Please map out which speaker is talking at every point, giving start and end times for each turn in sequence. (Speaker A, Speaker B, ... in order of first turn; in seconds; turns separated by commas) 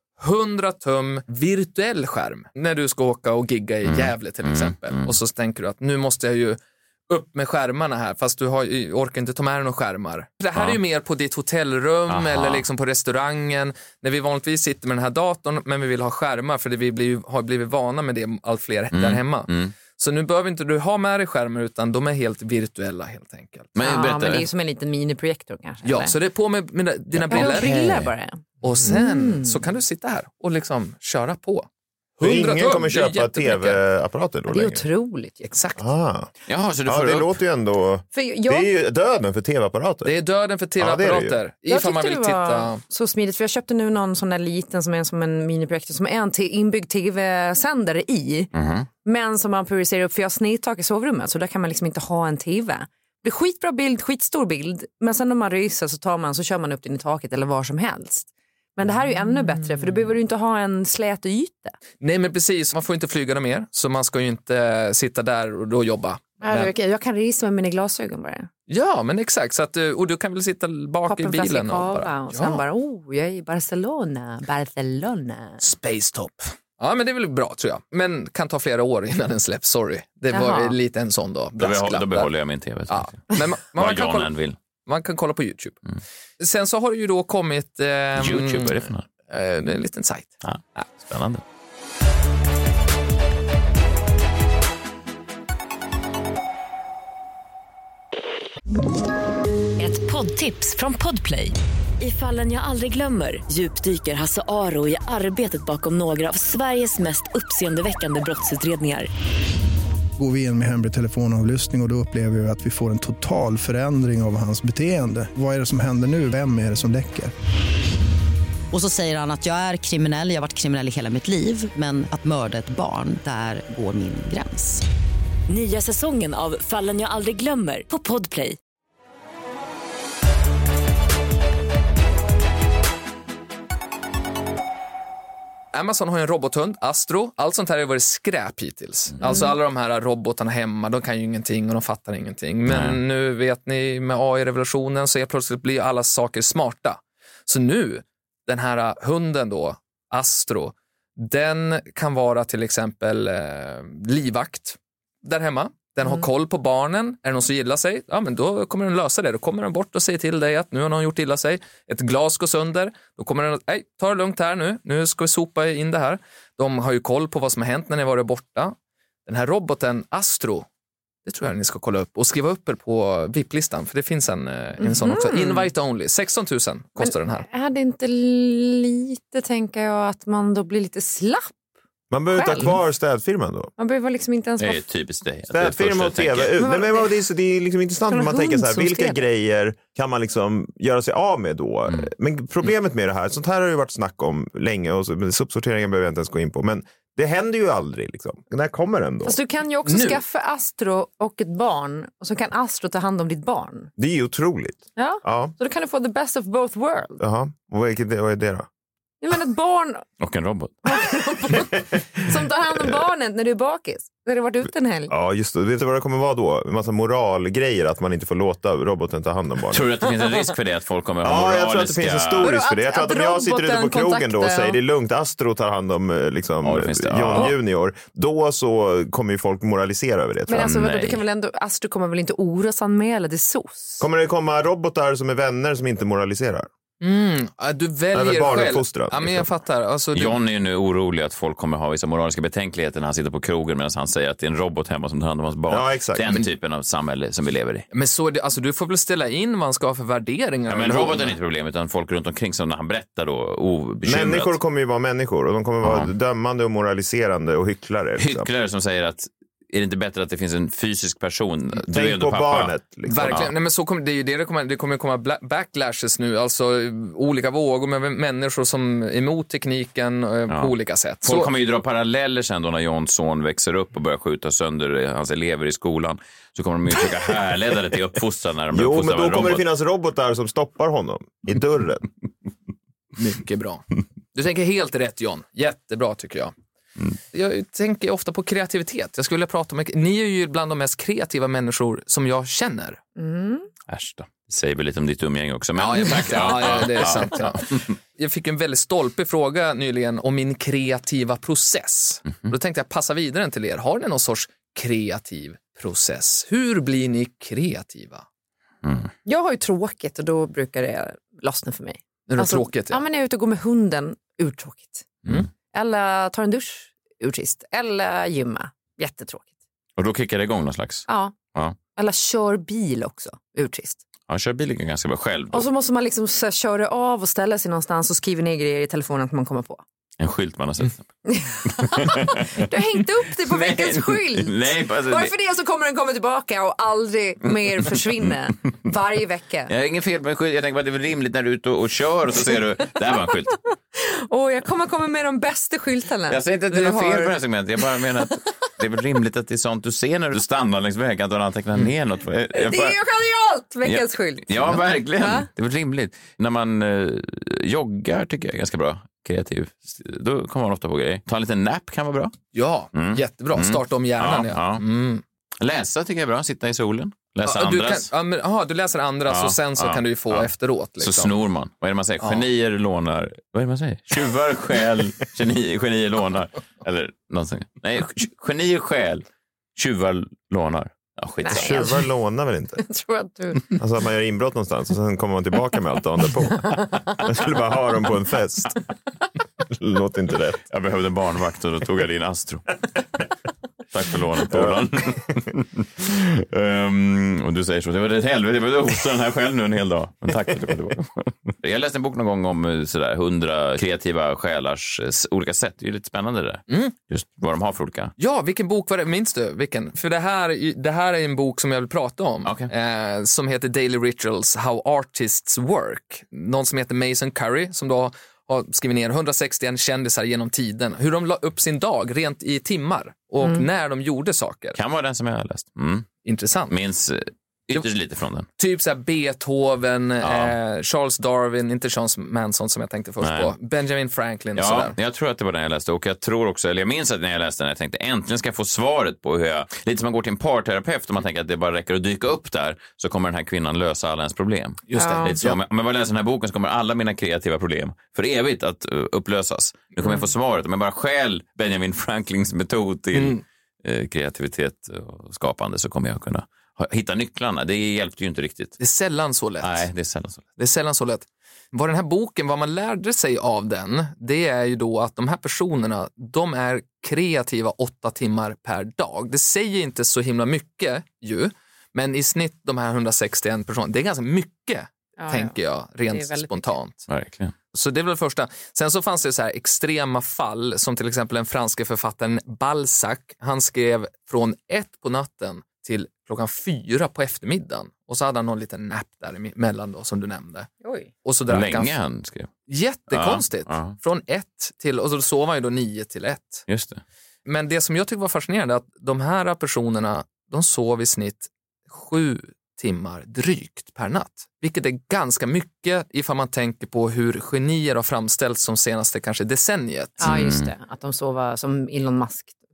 Speaker A: 0.2-23.7, Speaker B: 3.9-5.2, Speaker B: 12.1-12.7, Speaker B: 18.9-19.7, Speaker B: 23.8-24.5, Speaker C: 23.8-26.1, Speaker A: 25.9-33.8, Speaker C: 27.3-29.6, Speaker D: 32.2-34.9, Speaker C: 34.5-35.5, Speaker A: 35.5-35.9, Speaker D: 35.8-36.3, Speaker B: 36.5-37.3, Speaker D: 36.9-40.2, Speaker C: 38.1-38.7, Speaker A: 40.0-42.8, Speaker D: 40.8-41.4, Speaker C: 41.7-48.5, Speaker B: 48.5-48.9, Speaker C: 49.0-61.8, Speaker A: 59.5-60.1, Speaker A: 62.0-66.7, Speaker C: 66.4-68.5, Speaker A: 68.7-72.6, Speaker C: 71.1-75.6, Speaker A: 75.6-82.3, Speaker C: 80.3-80.8, Speaker B: 81.6-83.2, Speaker A: 82.9-84.3, Speaker B: 83.8-84.6, Speaker A: 84.8-85.8, Speaker A: 86.4-90.9, Speaker B: 88.2-89.1, Speaker B: 90.4-91.4, Speaker E: 99.8-109.1, Speaker F: 110.2-117.3, Speaker G: 118.7-124.8, Speaker E: 125.5-128.6, Speaker A: 135.7-168.8, Speaker C: 139.2-139.5, Speaker B: 142.7-143.0, Speaker A: 169.3-170.7, Speaker A: 171.2-177.5, Speaker C: 174.8-175.7, Speaker C: 177.0-181.5, Speaker D: 182.1-183.7, Speaker C: 182.3-182.8, Speaker C: 183.8-184.8, Speaker B: 184.6-186.6, Speaker D: 185.5-199.4, Speaker C: 186.6-187.2, Speaker C: 188.1-189.2, Speaker C: 199.2-203.9, Speaker D: 204.0-205.5, Speaker C: 205.0-207.2, Speaker D: 207.2-208.7, Speaker C: 209.2-210.1, Speaker B: 210.2-210.8, Speaker C: 210.8-215.1, Speaker D: 215.1-220.0, Speaker B: 219.7-222.6, Speaker D: 221.2-230.7, Speaker C: 222.4-224.8, Speaker B: 226.6-227.6, Speaker C: 230.5-234.1, Speaker B: 230.6-231.2, Speaker D: 234.0-236.7, Speaker A: 237.0-240.4, Speaker D: 238.1-239.5, Speaker B: 240.1-247.9, Speaker D: 245.7-246.3, Speaker A: 247.9-251.4, Speaker B: 250.7-254.6, Speaker D: 254.0-258.5, Speaker B: 255.8-256.1, Speaker B: 258.2-262.7, Speaker D: 261.9-263.5, Speaker A: 263.1-271.5, Speaker B: 263.3-263.5, Speaker B: 270.5-270.7, Speaker B: 271.2-279.6, Speaker D: 278.7-282.1, Speaker A: 283.2-286.5, Speaker A: 287.3-293.0, Speaker C: 293.2-293.7, Speaker B: 293.9-297.9, Speaker A: 295.8-308.2, Speaker B: 308.8-309.1, Speaker C: 309.3-315.1, Speaker A: 312.3-313.0, Speaker C: 315.7-319.5, Speaker B: 320.0-321.8, Speaker C: 321.1-321.4, Speaker C: 322.0-324.0, Speaker B: 324.3-325.7, Speaker C: 325.5-329.8, Speaker B: 330.2-331.1, Speaker C: 331.3-339.7, Speaker B: 331.7-332.7, Speaker B: 333.4-335.3, Speaker B: 337.9-338.3, Speaker B: 339.7-343.6, Speaker C: 343.9-347.4, Speaker B: 346.3-353.0, Speaker C: 348.0-348.3, Speaker C: 352.5-355.5, Speaker B: 353.9-362.4, Speaker A: 362.5-365.2, Speaker B: 362.9-364.8, Speaker B: 365.6-368.1, Speaker A: 367.4-371.3, Speaker B: 369.3-379.2, Speaker B: 379.8-382.0, Speaker C: 381.4-382.0, Speaker D: 381.5-382.8, Speaker C: 382.8-383.8, Speaker D: 383.8-388.8, Speaker D: 389.7-390.6, Speaker B: 390.7-392.7, Speaker B: 393.9-408.1, Speaker D: 394.5-394.8, Speaker A: 406.7-406.9, Speaker A: 408.2-424.8, Speaker B: 412.4-412.7, Speaker B: 424.8-426.1, Speaker A: 426.2-426.8, Speaker B: 426.7-428.5, Speaker A: 428.6-434.9, Speaker B: 430.2-430.6, Speaker B: 433.2-433.5, Speaker B: 434.6-458.8, Speaker A: 444.9-445.6, Speaker C: 444.9-445.3, Speaker A: 453.1-453.4, Speaker A: 458.8-459.9, Speaker B: 459.6-460.5, Speaker A: 460.6-477.1, Speaker C: 475.2-475.6, Speaker C: 476.1-476.7, Speaker B: 477.1-477.5, Speaker A: 477.7-490.7, Speaker C: 490.8-491.1, Speaker A: 491.2-491.9, Speaker B: 491.5-492.5, Speaker A: 492.7-496.7, Speaker B: 493.1-493.9, Speaker B: 496.7-497.0, Speaker A: 497.5-510.4, Speaker C: 510.2-512.5, Speaker B: 510.2-510.7